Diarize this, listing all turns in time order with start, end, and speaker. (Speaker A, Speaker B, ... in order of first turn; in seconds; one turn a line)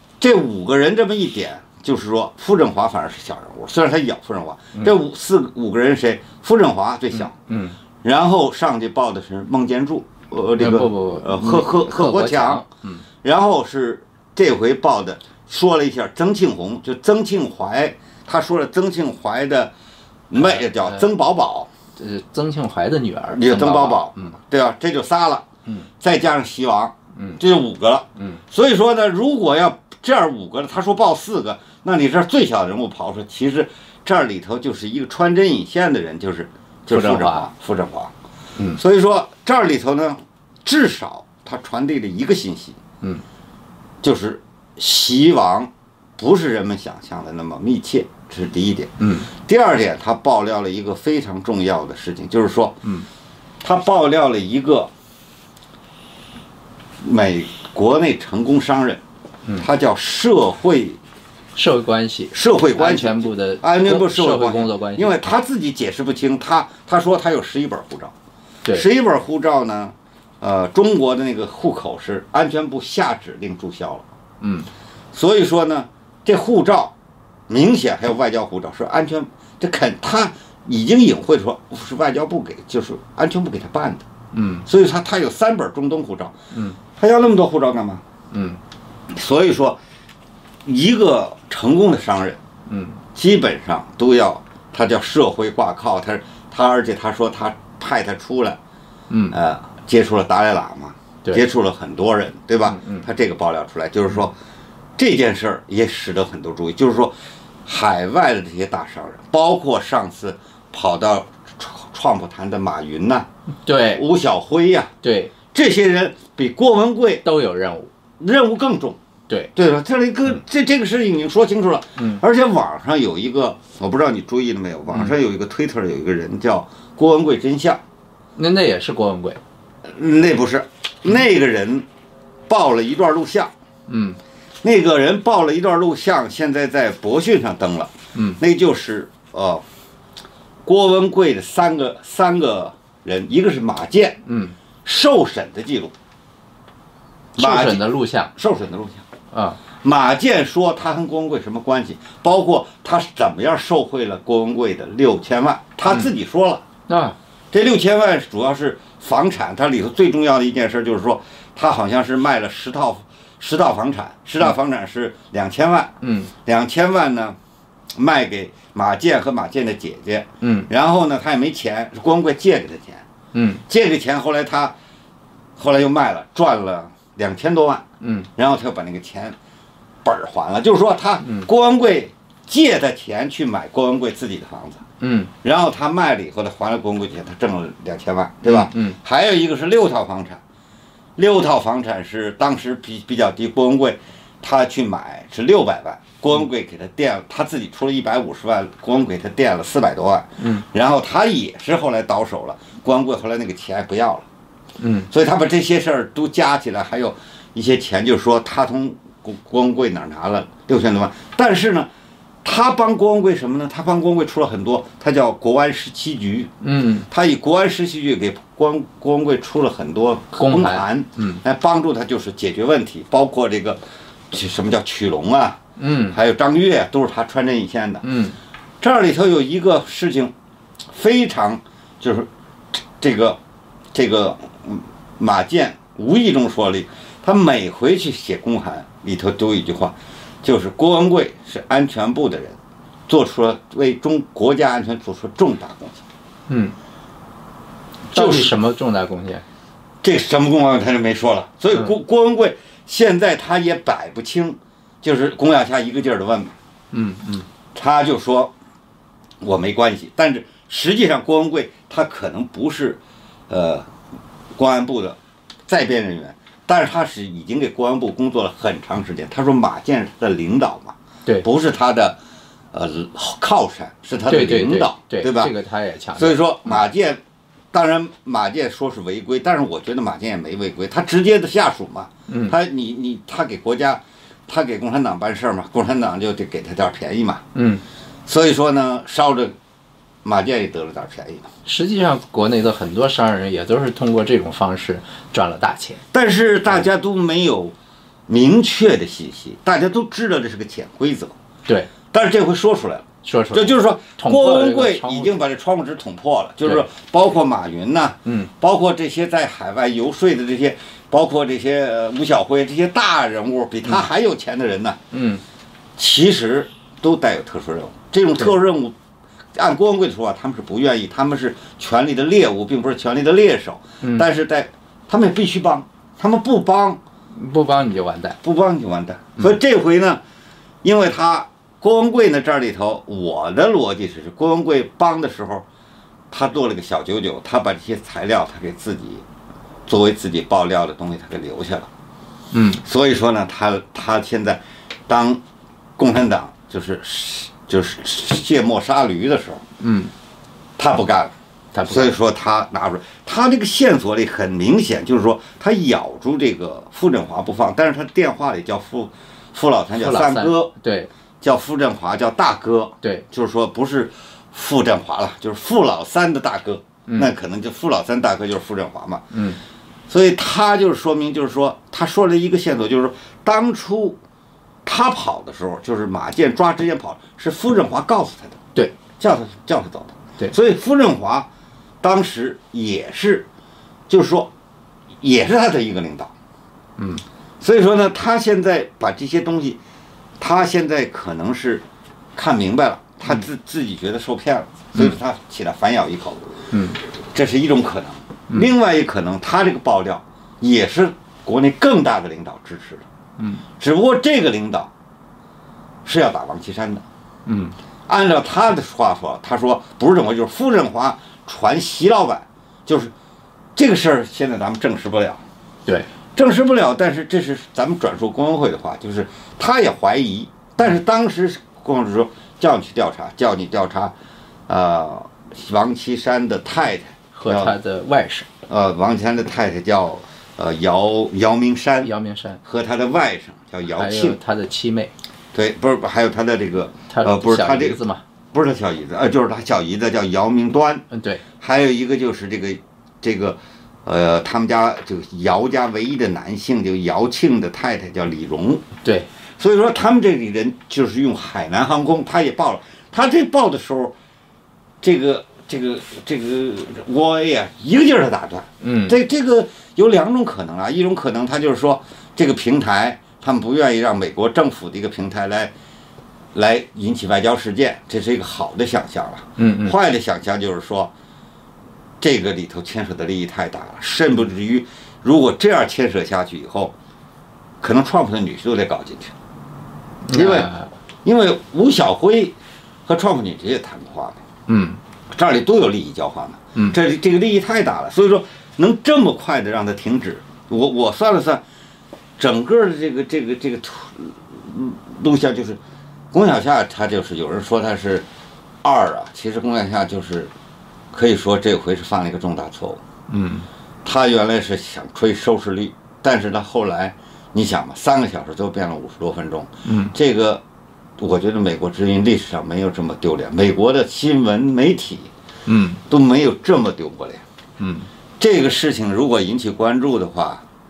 Speaker A: 0.2-7.3
Speaker B: 7.1-7.8
Speaker A: 8.0-12.6
Speaker B: 10.6-13.0
Speaker A: 13.2-19.7
Speaker A: 20.3-21.7
Speaker B: 20.4-21.0
Speaker B: 22.0-24.4
Speaker A: 23.3-25.5
Speaker A: 26.0-38.1
Speaker B: 27.1-27.4
Speaker B: 36.9-37.5
Speaker A: 38.7-42.8
Speaker A: 44.0-52.8
Speaker B: 49.0-49.3
Speaker A: 53.6-54.9
Speaker A: 57.0-59.0
Speaker A: 59.6-61.0
Speaker B: 61.5-65.2
Speaker A: 62.3-68.1
Speaker A: 68.7-74.0
Speaker B: 74.4-74.7
Speaker A: 75.1-76.9
Speaker A: 77.5-84.1
Speaker B: 84.3-84.7
Speaker A: 84.7-86.3
Speaker A: 87.0-88.0
Speaker B: 88.3-88.6
Speaker A: 89.1-89.8
Speaker A: 90.7-92.4
Speaker B: 92.7-93.0
Speaker A: 93.1-98.6
Speaker B: 99.1-99.3
Speaker A: 99.3-104.3
Speaker B: 102.7-103.0
Speaker A: 105.0-107.1
Speaker A: 107.6-113.3
Speaker B: 113.7-114.0
Speaker A: 113.9-114.9
Speaker B: 115.0-115.3
Speaker A: 115.5-117.2
Speaker B: 117.2-117.9
Speaker A: 118.2-119.0
Speaker A: 119.5-127.8
Speaker B: 122.0-122.2
Speaker B: 128.3-129.4
Speaker A: 129.8-131.8
Speaker A: 132.5-133.5
Speaker B: 133.9-134.2
Speaker A: 134.6-139.6
Speaker B: 138.1-138.4
Speaker A: 140.7-144.2
Speaker B: 144.2-144.6
Speaker A: 144.8-145.9
Speaker B: 147.4-148.3
Speaker A: 147.4-149.0
Speaker B: 149.3-149.6
Speaker A: 149.8-156.6
Speaker B: 156.9-157.2
Speaker A: 157.5-165.9
Speaker B: 166.0-166.3
Speaker A: 166.4-167.3
Speaker A: 167.9-173.0
Speaker B: 170.4-170.7
Speaker B: 173.3-173.6
Speaker A: 173.7-174.7
Speaker A: 175.6-179.3
Speaker B: 178.0-178.3
Speaker A: 180.0-184.8
Speaker B: 181.2-181.5
Speaker B: 185.0-185.3
Speaker A: 185.4-190.4
Speaker B: 188.4-189.0
Speaker A: 191.2-204.2
Speaker B: 204.8-205.1
Speaker A: 205.1-211.9
Speaker A: 212.4-216.5
Speaker B: 216.6-217.1
Speaker A: 217.1-223.8
Speaker B: 220.4-221.4
Speaker A: 224.3-228.1
Speaker B: 225.8-226.2
Speaker B: 228.0-228.3
Speaker A: 228.8-230.3
Speaker A: 230.9-233.4
Speaker A: 233.9-246.0
Speaker B: 246.5-246.7
Speaker A: 248.1-248.6
Speaker B: 248.1-249.4
Speaker A: 250.0-256.5
Speaker B: 256.9-257.4
Speaker A: 257.7-258.5
Speaker A: 259.4-263.9
Speaker A: 264.6-272.2
Speaker A: 272.7-275.5
Speaker B: 274.3-276.8
Speaker A: 276.1-277.2
Speaker A: 277.7-287.4
Speaker B: 282.3-282.5
Speaker B: 287.5-287.8
Speaker A: 288.2-289.5
Speaker A: 290.2-291.5
Speaker B: 291.6-296.0
Speaker A: 296.1-297.7
Speaker A: 298.3-301.3
Speaker B: 301.6-301.9
Speaker A: 302.1-315.0
Speaker B: 303.2-305.3
Speaker B: 308.2-308.5
Speaker B: 315.1-315.4
Speaker A: 316.0-318.9
Speaker A: 319.6-327.0
Speaker B: 324.0-324.3
Speaker B: 327.3-328.4
Speaker A: 328.4-330.2
Speaker A: 330.8-335.6
Speaker A: 336.3-339.2
Speaker A: 339.9-341.9
Speaker B: 342.5-342.8
Speaker A: 342.8-345.4
Speaker A: 346.0-349.6
Speaker B: 349.8-350.1
Speaker A: 350.8-351.3
Speaker B: 351.7-352.2
Speaker A: 351.9-360.7
Speaker B: 360.0-361.1
Speaker A: 361.4-369.2
Speaker B: 369.3-369.6
Speaker A: 370.1-374.2
Speaker A: 374.8-378.6
Speaker A: 379.2-381.5
Speaker A: 382.0-383.4
Speaker A: 384.1-384.5
Speaker A: 385.2-386.3
Speaker B: 387.0-387.2
Speaker A: 387.6-389.8
Speaker A: 390.4-391.8
Speaker A: 392.4-396.6
Speaker B: 396.7-397.0
Speaker A: 397.3-403.1
Speaker B: 403.4-403.6
Speaker A: 403.8-404.9
Speaker A: 406.1-407.0
Speaker B: 407.4-407.7
Speaker A: 408.1-413.1
Speaker A: 413.8-415.4
Speaker A: 416.3-424.1
Speaker A: 424.7-427.7
Speaker B: 427.3-428.5
Speaker A: 428.7-432.1
Speaker B: 432.0-432.6
Speaker A: 432.6-434.4
Speaker B: 433.9-435.1
Speaker A: 435.5-438.0
Speaker B: 437.1-438.2
Speaker A: 438.5-441.0
Speaker B: 441.1-441.4
Speaker A: 441.6-448.8
Speaker B: 449.0-449.3
Speaker A: 449.6-454.1
Speaker A: 455.0-465.7
Speaker B: 458.8-459.1
Speaker A: 466.5-471.1
Speaker B: 469.6-469.9
Speaker A: 472.2-476.9
Speaker A: 477.8-479.3
Speaker B: 480.2-480.9
Speaker A: 480.3-480.7
Speaker A: 481.2-482.5
Speaker A: 483.1-484.4
Speaker B: 484.7-485.0
Speaker A: 485.3-491.6
Speaker A: 492.4-495.8
Speaker A: 496.3-498.2
Speaker A: 498.8-500.5
Speaker A: 501.1-503.0
Speaker B: 503.3-503.7
Speaker A: 504.0-510.6
Speaker B: 509.8-510.1
Speaker A: 511.2-515.3
Speaker B: 515.6-516.0
Speaker A: 516.1-517.4
Speaker B: 517.8-518.1
Speaker A: 518.4-520.6